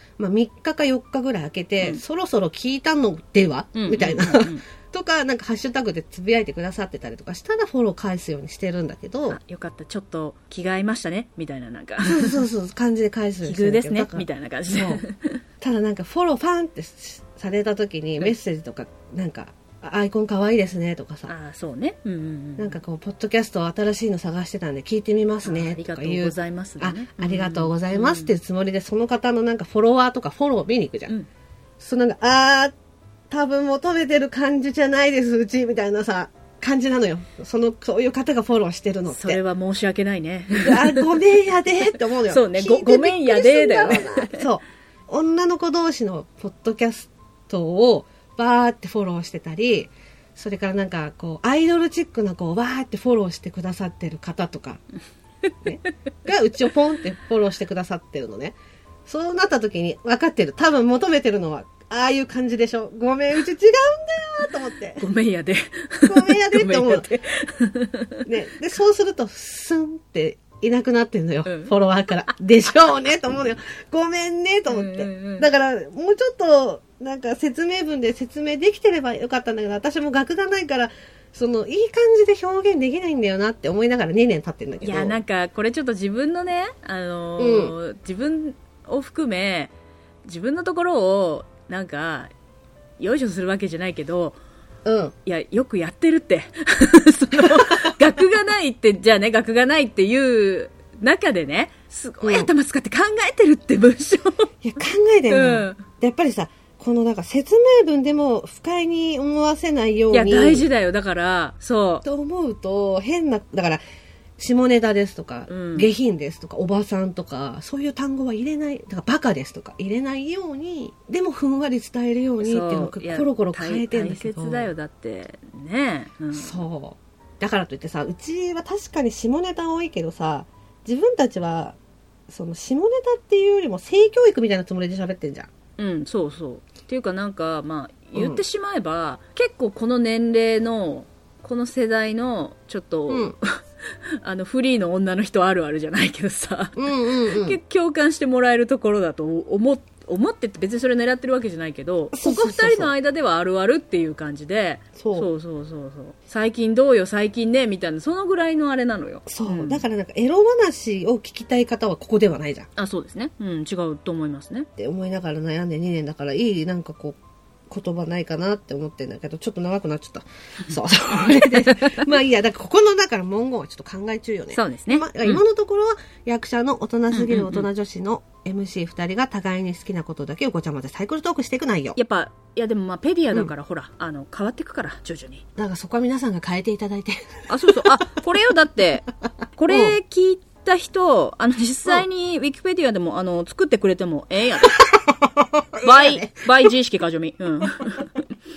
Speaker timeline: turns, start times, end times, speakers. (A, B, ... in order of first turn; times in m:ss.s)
0:00.2-0:09.4 A
0:03.8-0:04.6 B
0:09.3-0:12.4 B
0:12.0-0:15.0 A
0:13.4-0:15.4 B
0:15.6-0:21.3 A
0:21.3-0:22.8 B
0:22.6-0:31.1 A
0:25.4-0:28.3 B
0:31.8-0:32.7 A
0:33.3-0:39.4 A
0:39.1-0:41.2 B
0:40.6-0:54.8 A
0:42.2-0:44.4 B
0:55.6-0:58.6 A
0:59.1-1:05.0 A
1:05.0-1:08.3 B
1:06.0-1:07.1 A
1:08.3-1:25.2 A
1:11.5-1:11.7 B
1:14.7-1:15.5 B
1:24.8-1:29.7 B
1:27.4-1:27.8 A
1:30.2-1:32.3 B
1:33.0-1:34.4 B
1:34.8-1:35.1 A
1:35.2-1:44.5 B
1:37.4-1:37.9 A
1:42.2-1:42.5 A
1:44.6-1:50.7 A
1:45.3-1:45.8 B
1:50.1-1:52.0 B
1:52.0-1:53.8 A
1:54.4-2:04.7 A
1:55.5-1:55.9 B
2:02.4-2:06.6 B
2:06.3-2:11.8 A
2:12.3-2:15.5 A
2:15.8-2:23.5 B
2:18.2-2:18.4 A
2:23.1-2:23.4 A
2:24.2-2:39.8 B
2:26.8-2:27.6 A
2:32.1-2:32.9 A
2:35.0-2:35.3 A
2:39.3-2:42.7 A
2:42.8-2:44.7 B
2:44.8-2:47.2 A
2:47.7-3:02.0 A
2:51.2-2:52.0 B
2:54.5-2:55.4 B
2:57.1-2:57.7 B
3:02.0-3:05.4 B
3:05.6-3:07.3 A
3:07.5-3:14.9 B
3:09.7-3:10.0 A
3:14.9-3:16.4 A
3:15.8-3:18.2 B